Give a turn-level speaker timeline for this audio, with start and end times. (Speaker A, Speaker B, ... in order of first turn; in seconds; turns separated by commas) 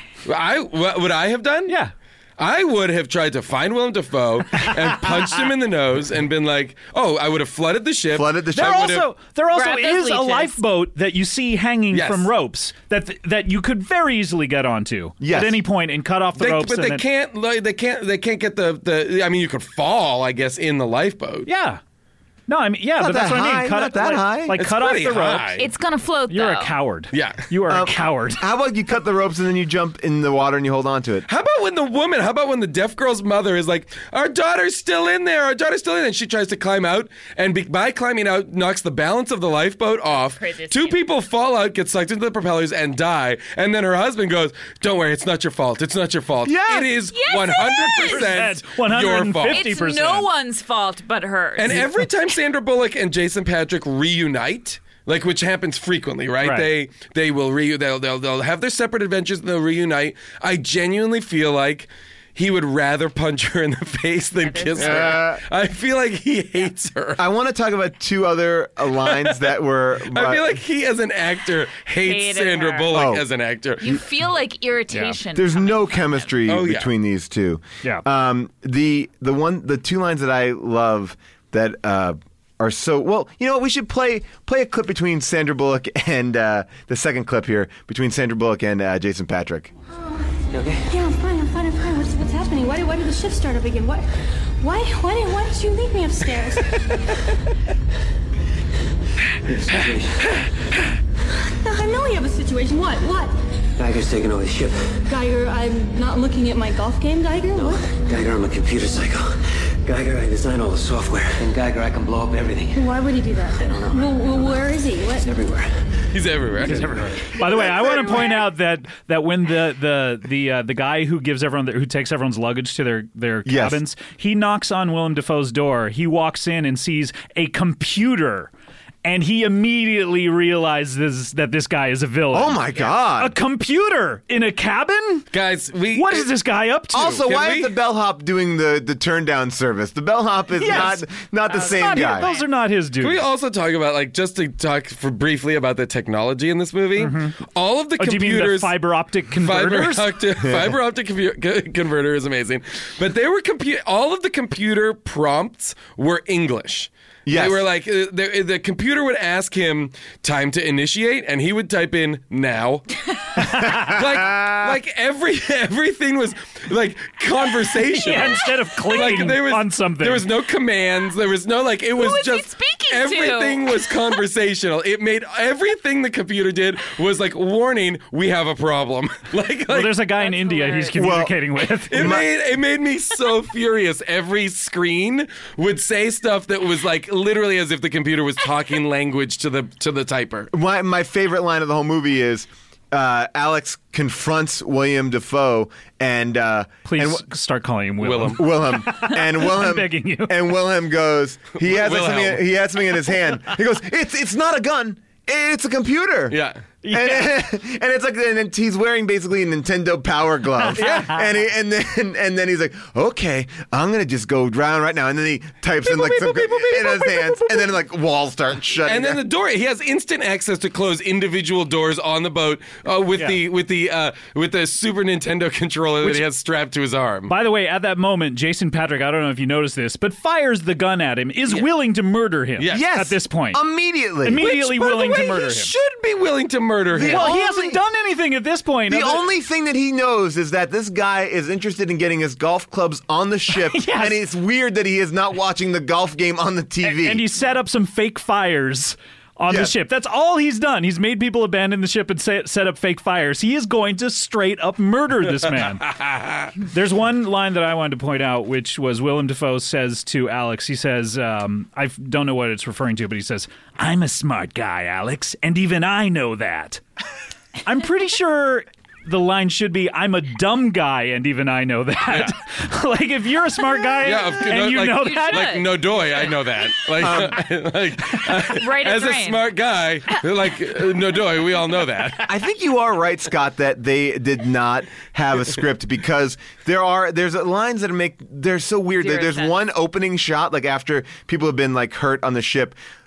Speaker A: 0.3-1.8, Speaker B: 1.7-1.9, Speaker A: 2.4-9.1, Speaker C: 8.1-8.9, Speaker B: 8.5-17.0, Speaker D: 9.5-10.6, Speaker A: 11.9-12.3, Speaker C: 15.2-15.6, Speaker A: 16.4-21.5, Speaker B: 21.5-21.8, Speaker B: 22.5-25.7, Speaker C: 23.0-24.6, Speaker A: 24.6-25.7, Speaker D: 25.6-26.7, Speaker B: 26.3-28.4, Speaker A: 27.1-27.5, Speaker C: 27.7-31.3, Speaker A: 31.3-49.7, Speaker D: 40.1-41.0, Speaker D: 47.1-48.4, Speaker B: 48.0-50.3, Speaker D: 49.5-51.9, Speaker A: 51.6-67.2, Speaker B: 56.4-56.7, Speaker D: 64.4-65.2, Speaker C: 64.8-65.4, Speaker C: 67.2-70.5, Speaker A: 69.0-69.5, Speaker A: 70.1-74.0, Speaker D: 72.0-72.9, Speaker C: 72.9-73.2, Speaker D: 73.8-76.3, Speaker B: 74.9-75.2, Speaker C: 75.3-89.7, Speaker A: 76.5-76.9, Speaker E: 90.5-90.9, Speaker F: 90.9-94.1, Speaker F: 94.6-96.8, Speaker E: 99.5-100.3, Speaker F: 101.6-103.3, Speaker E: 103.8-105.0, Speaker F: 105.1-107.8, Speaker E: 107.5-112.9, Speaker F: 112.8-115.3, Speaker E: 113.6-114.6, Speaker E: 115.2-115.7, Speaker A: 116.1-117.1, Speaker B: 116.6-128.5, Speaker C: 117.6-118.2, Speaker C: 123.5-123.8, Speaker B: 129.0-135.3, Speaker C: 132.3-133.3, Speaker A: 135.3-136.3, Speaker B: 135.9-137.3, Speaker C: 136.9-142.3, Speaker A: 137.2-137.8, Speaker B: 140.6-143.2, Speaker D: 141.5-142.5, Speaker A: 143.0-148.8, Speaker B: 147.0-147.4, Speaker B: 148.0-150.1, Speaker A: 149.4-162.8, Speaker C: 150.4-150.7, Speaker C: 157.3-157.6, Speaker B: 163.6-163.9, Speaker A: 163.6-180.1, Speaker B: 167.9-170.3, Speaker D: 168.8-169.3, Speaker D: 172.0-174.2, Speaker B: 179.7-182.2, Speaker D: 180.2-181.2, Speaker C: 180.9-181.4, Speaker A: 181.9-190.5, Speaker C: 181.9-182.2, Speaker C: 190.5-197.3, Speaker B: 196.9-200.5, Speaker A: 198.0-198.6, Speaker C: 198.3-206.4, Speaker A: 201.6-202.5, Speaker A: 206.3-206.6, Speaker B: 206.8-207.4, Speaker C: 206.9-219.2, Speaker B: 210.6-211.2, Speaker B: 215.8-217.8, Speaker A: 218.8-227.3, Speaker B: 227.3-233.6, Speaker A: 232.6-232.8, Speaker C: 232.7-234.5, Speaker B: 234.2-235.7, Speaker A: 234.4-237.3, Speaker C: 236.9-237.8, Speaker B: 237.0-239.3, Speaker C: 238.9-247.3, Speaker B: 243.5-244.2, Speaker B: 246.8-255.9, Speaker C: 249.5-249.7, Speaker A: 255.5-256.5, Speaker B: 256.6-266.8, Speaker B: 267.6-275.6, Speaker A: 272.1-272.4, Speaker A: 274.0-282.3, Speaker D: 274.9-276.4, Speaker C: 277.0-277.4, Speaker D: 278.4-279.4, Speaker C: 282.3-292.8, Speaker D: 289.0-289.6